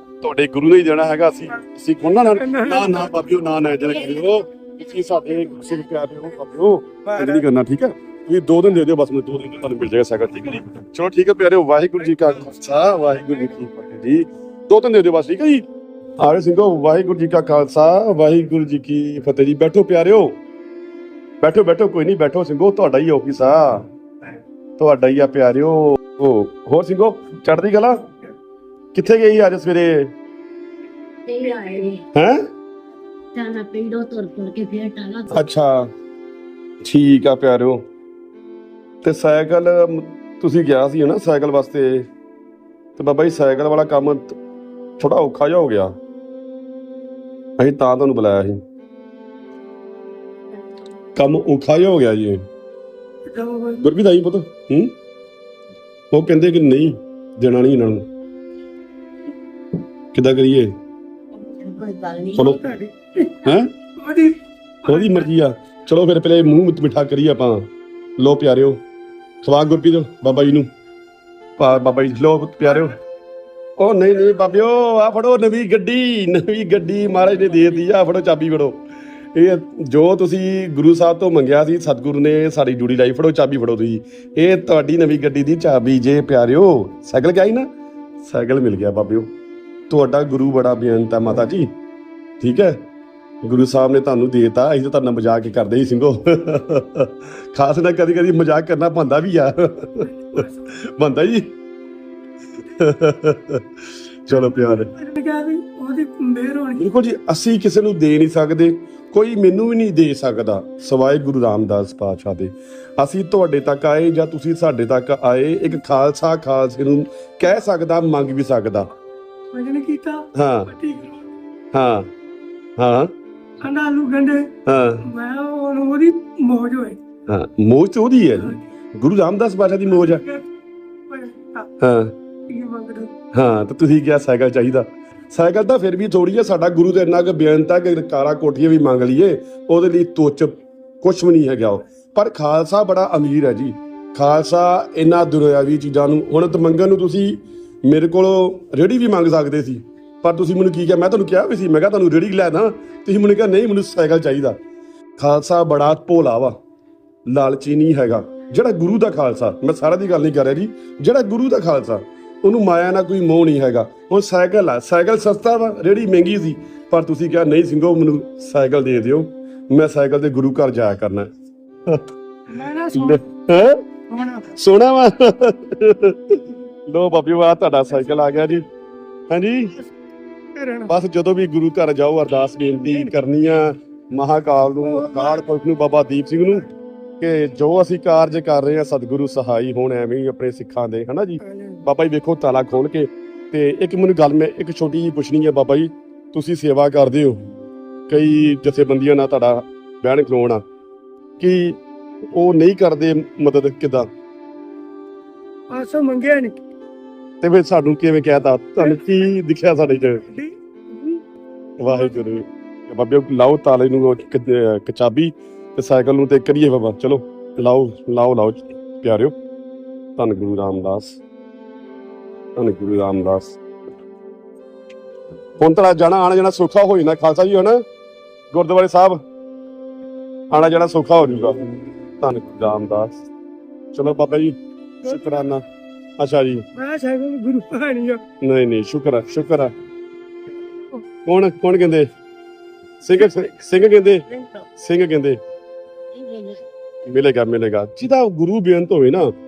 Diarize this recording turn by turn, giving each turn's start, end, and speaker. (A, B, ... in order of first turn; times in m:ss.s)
0:00.2-0:15.6 A
0:02.2-0:03.1 B
0:07.0-0:07.4 B
0:16.2-0:20.4 A
0:21.4-0:23.8 A
0:24.8-0:28.0 A
0:28.9-0:30.1 A
0:31.3-0:32.0 C
0:32.2-0:32.4 A
0:33.3-0:35.3 C
0:35.3-0:35.9 A
0:36.8-0:37.8 A
0:39.0-0:42.1 A
0:43.0-0:44.4 A
0:45.0-0:45.9 A
0:47.6-0:48.6 A
0:51.2-0:52.4 A
0:53.3-0:53.8 B
0:53.8-0:54.9 A
0:56.1-0:58.1 A
1:00.1-1:00.7 A
1:01.6-1:02.4 C
1:02.3-1:02.8 A
1:02.4-1:03.4 B
1:03.4-1:03.7 A
1:04.0-1:05.3 B
1:04.9-1:08.8 A
1:09.4-1:10.7 A
1:11.6-1:13.0 A
1:13.8-1:18.8 A
1:19.3-1:27.7 A
1:28.2-1:29.3 A
1:29.9-1:31.7 A
1:32.4-1:32.8 A
1:33.4-1:41.5 A
1:40.2-1:40.7 B
1:42.7-1:43.7 A
1:44.3-1:44.9 A
1:44.3-1:46.8 B
1:46.8-1:58.9 A
1:59.5-2:01.3 B
2:00.3-2:00.8 A
2:01.7-2:02.1 A
2:02.8-2:03.1 A
2:03.6-2:07.0 B
2:04.7-2:05.1 A
2:07.3-2:10.3 A
2:10.0-2:10.4 B
2:11.1-2:11.7 B
2:11.8-2:12.2 A
2:12.5-2:13.2 B
2:13.3-2:34.6 A
2:35.2-2:36.6 A
2:37.3-2:51.3 A
2:52.5-2:54.5 B
2:52.9-2:53.8 A
2:54.6-2:58.6 A
2:59.3-2:59.8 A
3:00.6-3:00.9 B
3:00.9-3:06.7 A
3:04.9-3:05.4 B
3:07.2-3:17.4 A
3:11.5-3:11.8 B
3:18.1-3:20.6 A
3:21.4-3:21.8 A
3:22.3-3:24.1 A
3:25.7-3:26.6 B
3:27.4-3:30.3 A
3:28.8-3:29.1 B
3:30.2-3:31.2 B
3:31.8-3:39.4 A
3:31.8-3:32.2 B
3:40.2-3:41.2 A
3:42.6-3:43.6 A
3:45.6-3:47.8 A
3:48.5-3:49.2 A
3:50.5-3:51.6 A
3:52.2-3:53.2 A
3:53.9-3:55.6 A
3:55.1-3:55.5 B
3:56.2-3:56.6 A
3:56.8-3:58.2 B
3:58.4-3:59.7 A
4:01.2-4:02.1 A
4:03.0-4:04.3 A
4:03.3-4:03.7 B
4:04.8-4:05.4 A
4:06.2-4:06.6 B
4:07.1-4:09.3 A